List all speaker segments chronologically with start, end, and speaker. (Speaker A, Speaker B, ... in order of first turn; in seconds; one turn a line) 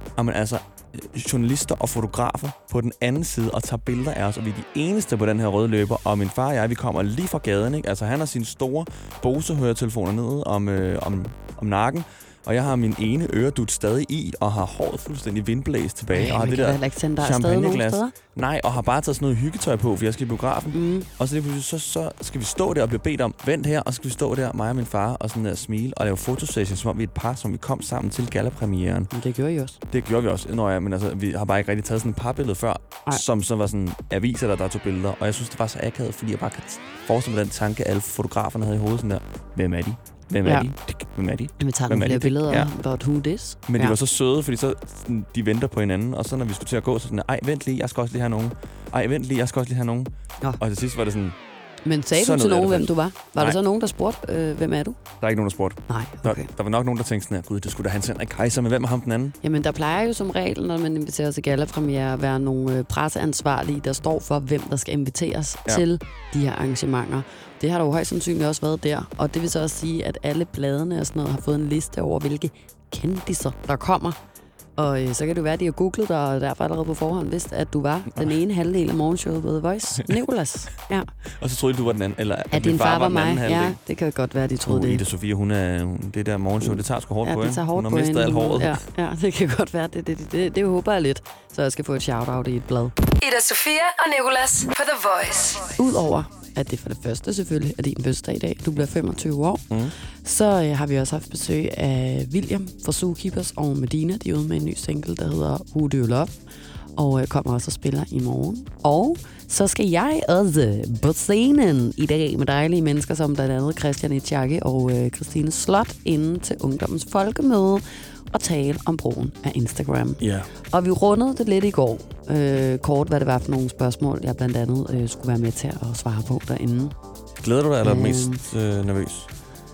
Speaker A: 0.2-29.1
Speaker B: 16.1-18.1
Speaker B: 20.7-21.1
Speaker B: 29.1-29.8
Speaker A: 29.9-42.7
Speaker B: 41.6-44.0
Speaker A: 43.7-51.4
Speaker B: 51.9-55.0
Speaker A: 52.1-53.6
Speaker A: 55.2-59.4
Speaker B: 55.9-56.5
Speaker B: 59.4-74.2
Speaker B: 74.8-81.1
Speaker A: 81.4-83.8
Speaker B: 82.5-85.0
Speaker A: 84.7-88.8
Speaker B: 86.6-92.9
Speaker C: 93.2-95.7
Speaker B: 95.8-99.7
Speaker B: 100.2-106.3
Speaker B: 107.0-126.9
Speaker A: 120.2-120.5
Speaker A: 127.4-129.3
Speaker B: 127.8-128.4